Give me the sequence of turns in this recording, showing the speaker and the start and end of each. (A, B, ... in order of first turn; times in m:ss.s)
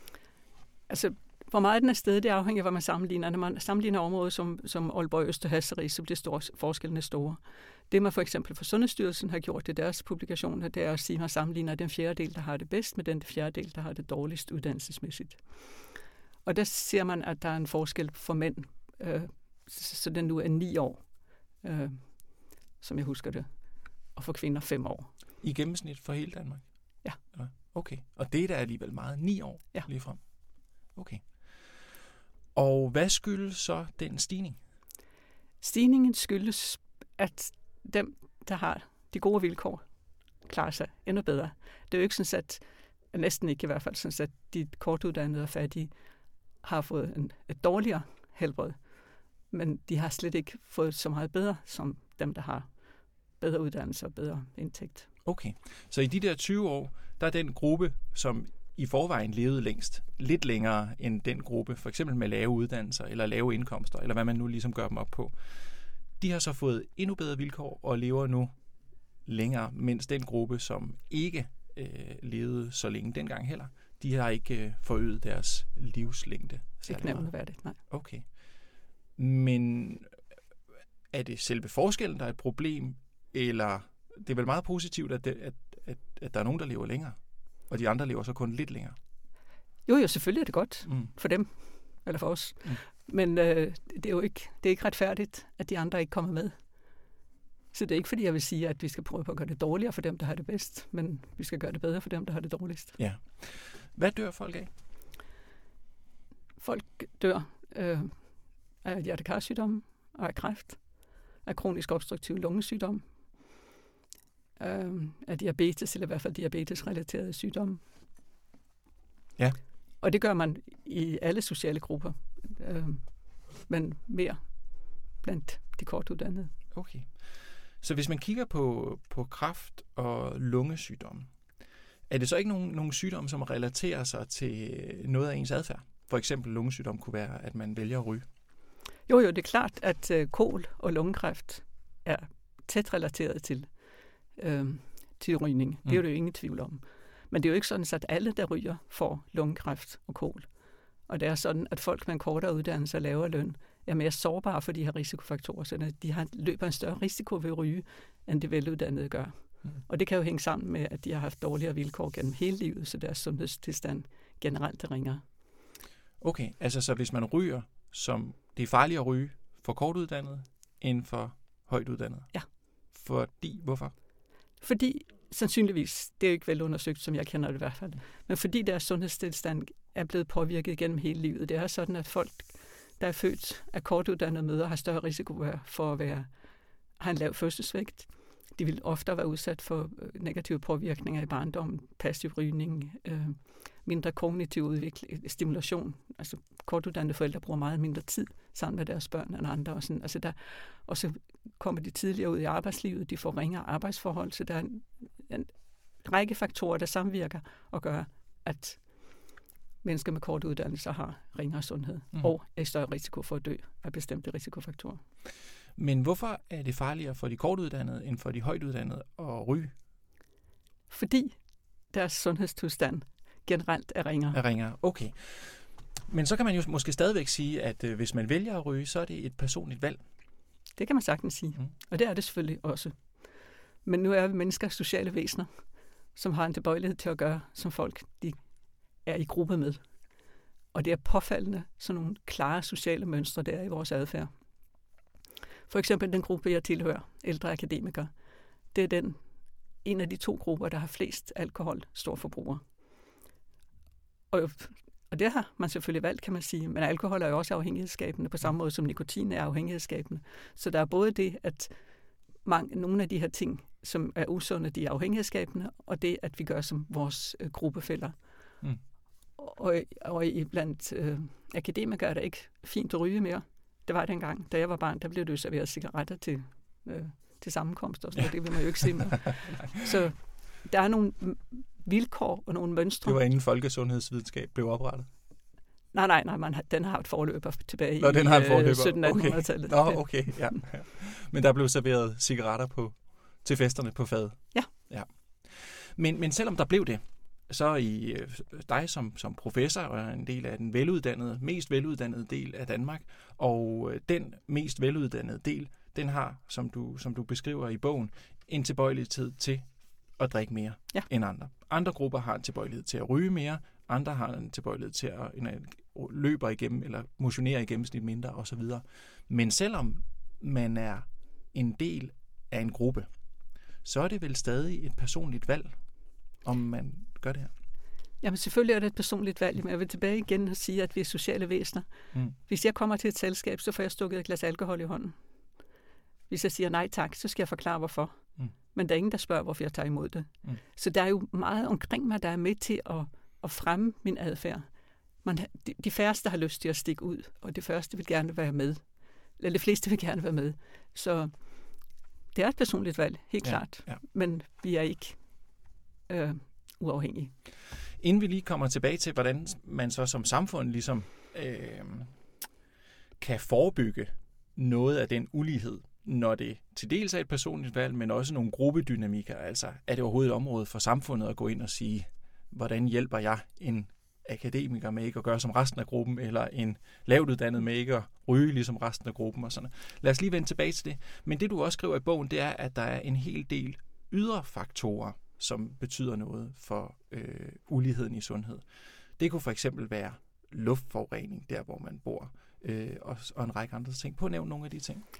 0:00.9-0:15.6 A
0:16.4-0:21.1 A
0:21.6-0:23.5 A
0:24.1-0:25.1 A
0:25.4-0:30.2 B
0:30.9-0:31.2 B
0:32.5-0:34.6 B
0:35.6-0:39.8 A
0:40.4-0:45.9 A
0:46.6-0:48.8 A
0:49.5-0:52.7 A
0:53.4-0:55.1 A
0:55.2-1:08.5 B
1:09.2-1:17.3 B
1:16.9-1:17.8 A
1:17.9-1:18.2 B
1:19.2-1:20.2 B
1:21.1-1:27.2 B
1:27.7-1:29.0 B
1:29.8-1:36.6 A
1:37.7-1:43.0 A
1:43.0-1:44.7 B
1:46.6-1:48.3 A
1:48.8-1:53.6 A
1:54.6-1:57.8 A
2:00.0-2:04.4 A
2:05.2-2:06.5 A
2:06.7-2:11.3 B
2:12.1-2:18.2 B
2:19.1-2:23.7 A
2:24.4-2:30.5 A
2:31.1-2:45.2 A
2:46.2-2:52.3 B
2:52.9-2:53.9 B
2:54.6-3:06.3 A
3:07.0-3:29.2 A
3:29.8-3:35.0 A
3:35.8-3:39.7 B
3:40.9-3:41.4 A
3:41.9-3:44.4 A
3:44.3-3:50.0 B
3:50.8-3:53.2 A
3:53.8-3:55.5 A
3:56.1-3:58.4 A
3:59.0-3:59.8 A
4:00.7-4:04.3 A
4:05.7-4:08.1 A
4:08.7-4:09.2 A
4:09.8-4:12.6 A
4:14.3-4:21.8 A
4:22.4-4:28.2 A
4:29.4-4:43.2 A
4:43.0-4:45.1 B
4:45.9-4:50.6 A
4:48.0-5:23.1 B
5:23.8-5:25.8 B
5:26.4-5:27.5 B
5:28.2-5:35.1 A
5:36.3-5:38.2 A
5:38.7-5:44.6 A
5:45.2-5:48.8 A
5:49.4-5:51.3 A
5:52.3-5:55.2 A
5:53.4-5:54.0 B
5:56.1-5:57.3 A
5:58.0-6:02.1 B
6:03.2-6:28.7 B
6:29.2-6:35.0 B